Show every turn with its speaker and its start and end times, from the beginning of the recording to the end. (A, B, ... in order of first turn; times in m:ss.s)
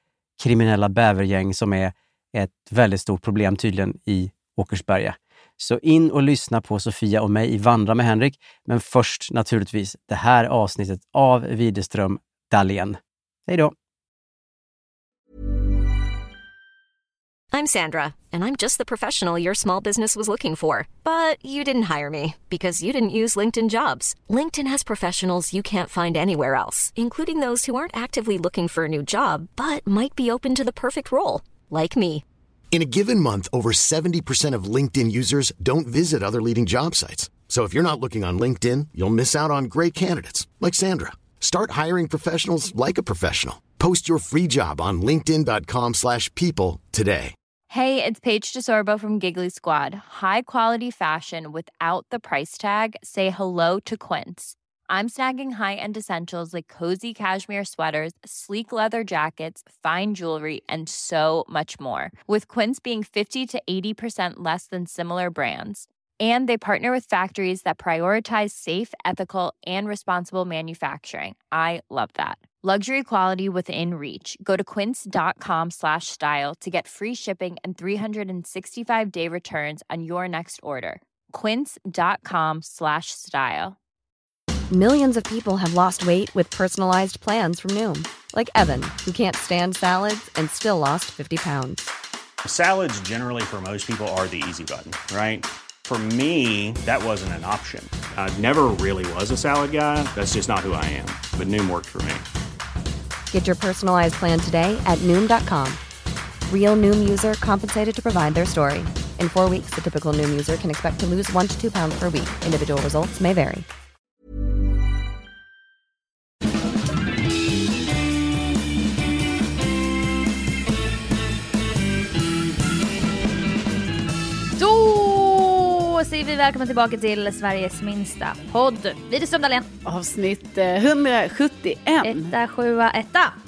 0:00.4-0:13.7 A
0:17.5-0:32.2 B
0:32.7-0:47.3 C
0:47.7-1:23.8 D
1:24.7-1:31.9 E
1:32.4-1:42.2 F
1:43.3-1:45.8 E
1:46.5-1:53.7 E
2:04.6-2:09.7 G
2:09.8-2:12.3 H
2:12.0-2:13.3 G